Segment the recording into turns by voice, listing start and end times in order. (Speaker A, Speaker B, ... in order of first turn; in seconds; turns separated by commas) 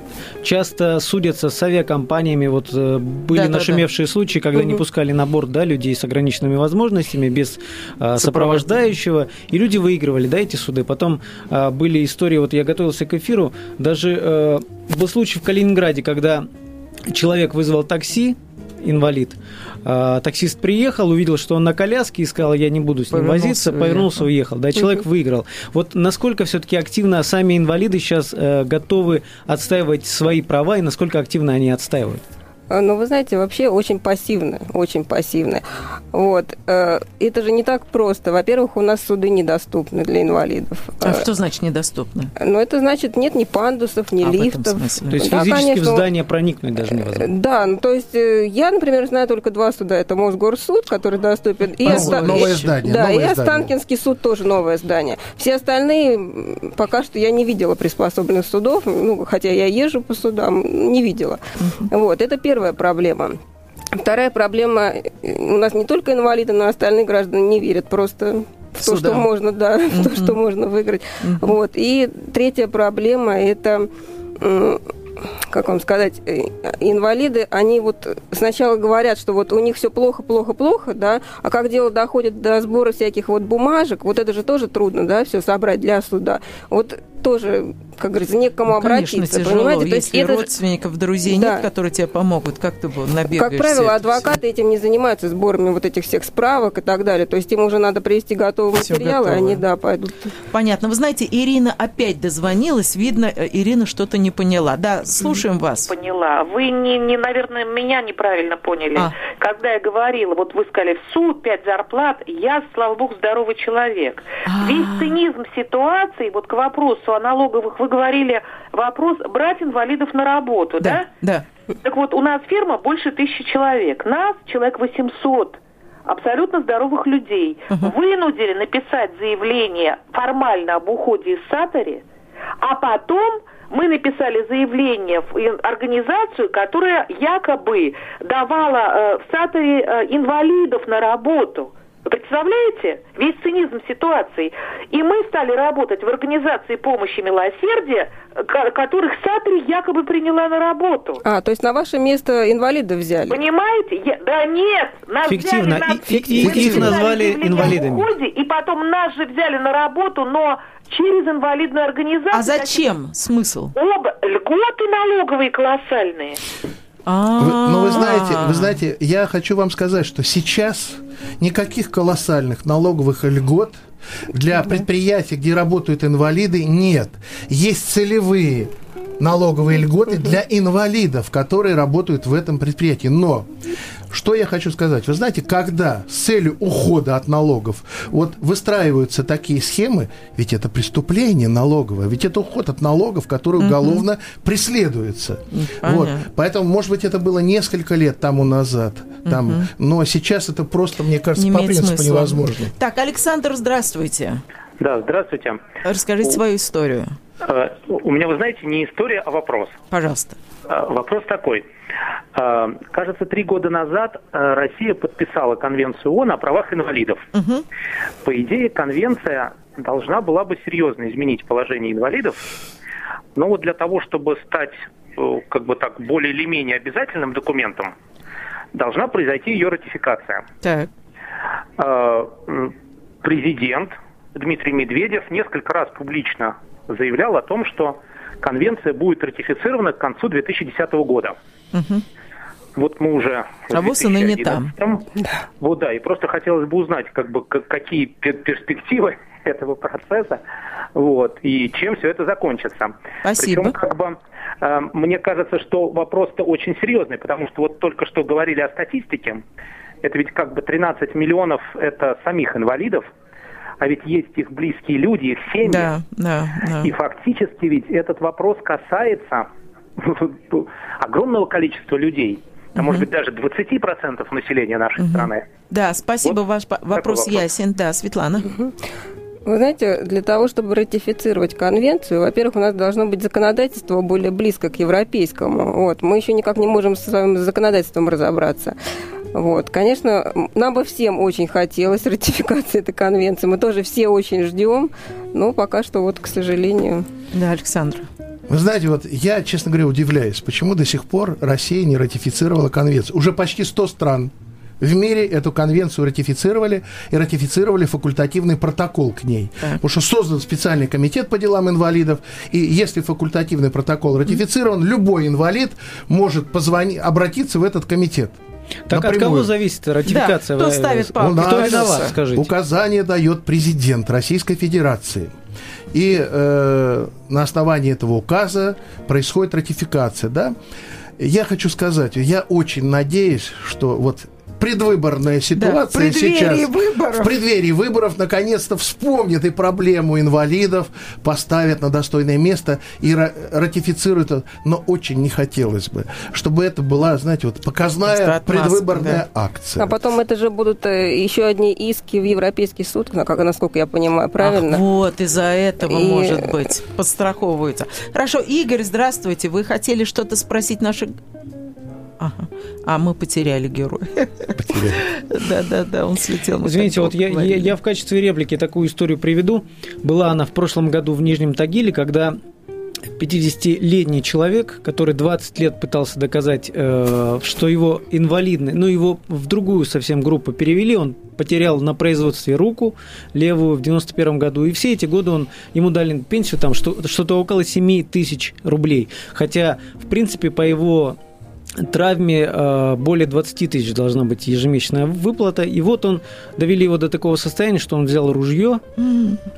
Speaker A: 0.4-16.5, Speaker B: 3.3-3.8, Speaker B: 8.2-8.6, Speaker A: 17.1-32.2, Speaker B: 23.1-24.3, Speaker C: 32.7-41.2, Speaker B: 41.0-42.3, Speaker C: 42.4-46.1, Speaker B: 44.2-45.2, Speaker A: 45.1-47.3, Speaker C: 46.9-63.4, Speaker B: 51.8-52.7, Speaker D: 51.8-53.7, Speaker B: 61.6-61.9, Speaker C: 64.0-74.8, Speaker B: 68.8-69.3, Speaker B: 69.9-70.4, Speaker B: 71.2-71.5, Speaker C: 75.4-90.5, Speaker B: 88.7-94.3, Speaker C: 91.2-91.7, Speaker C: 93.3-100.3, Speaker B: 98.8-99.6, Speaker B: 100.5-105.9, Speaker E: 105.9-121.1, Speaker B: 114.5-115.2, Speaker B: 120.8-121.4, Speaker E: 121.8-132.0, Speaker E: 132.6-151.2, Speaker C: 151.2-153.4, Speaker E: 153.3-162.8, Speaker A: 155.3-158.1, Speaker D: 156.5-156.9, Speaker B: 162.3-163.7, Speaker E: 163.7-166.4, Speaker B: 167.1-168.8, Speaker D: 167.4-183.5, Speaker D: 184.1-202.7, Speaker B: 193.6-194.0, Speaker B: 195.5-196.3, Speaker B: 199.2-199.7, Speaker B: 201.3-204.4, Speaker F: 204.8-205.6, Speaker B: 205.8-207.2, Speaker F: 207.4-209.7, Speaker B: 209.9-210.4, Speaker F: 210.7-211.7, Speaker F: 212.3-217.2, Speaker B: 217.3-217.6, Speaker F: 218.2-222.4, Speaker F: 223.3-227.9, Speaker F: 228.7-230.4, Speaker B: 230.6-230.9, Speaker F: 231.8-241.3, Speaker B: 241.7-242.0, Speaker F: 242.8-245.1, Speaker B: 243.7-244.7, Speaker F: 245.6-250.4, Speaker F: 250.9-259.4, Speaker B: 253.2-253.7, Speaker F: 260.0-263.0, Speaker F: 263.8-265.9, Speaker B: 265.6-266.9, Speaker F: 266.8-275.4, Speaker B: 272.8-273.1, Speaker B: 275.0-278.5, Speaker F: 276.9-277.4, Speaker C: 279.4-288.8, Speaker C: 289.3-297.1, Speaker B: 297.3-298.1, Speaker D: 298.5-318.4, Speaker A: 318.9-322.5, Speaker D: 318.9-319.5, Speaker B: 320.1-322.1, Speaker D: 321.2-325.3, Speaker D: 325.9-330.6, Speaker D: 331.2-349.9, Speaker B: 335.6-337.4, Speaker B: 348.1-349.2, Speaker C: 349.8-354.8, Speaker B: 354.4-361.1, Speaker C: 355.8-356.6, Speaker B: 362.2-367.7, Speaker D: 364.5-365.0, Speaker A: 366.6-372.4, Speaker A: 373.1-391.2, Speaker A: 391.8-398.8, Speaker B: 399.0-399.4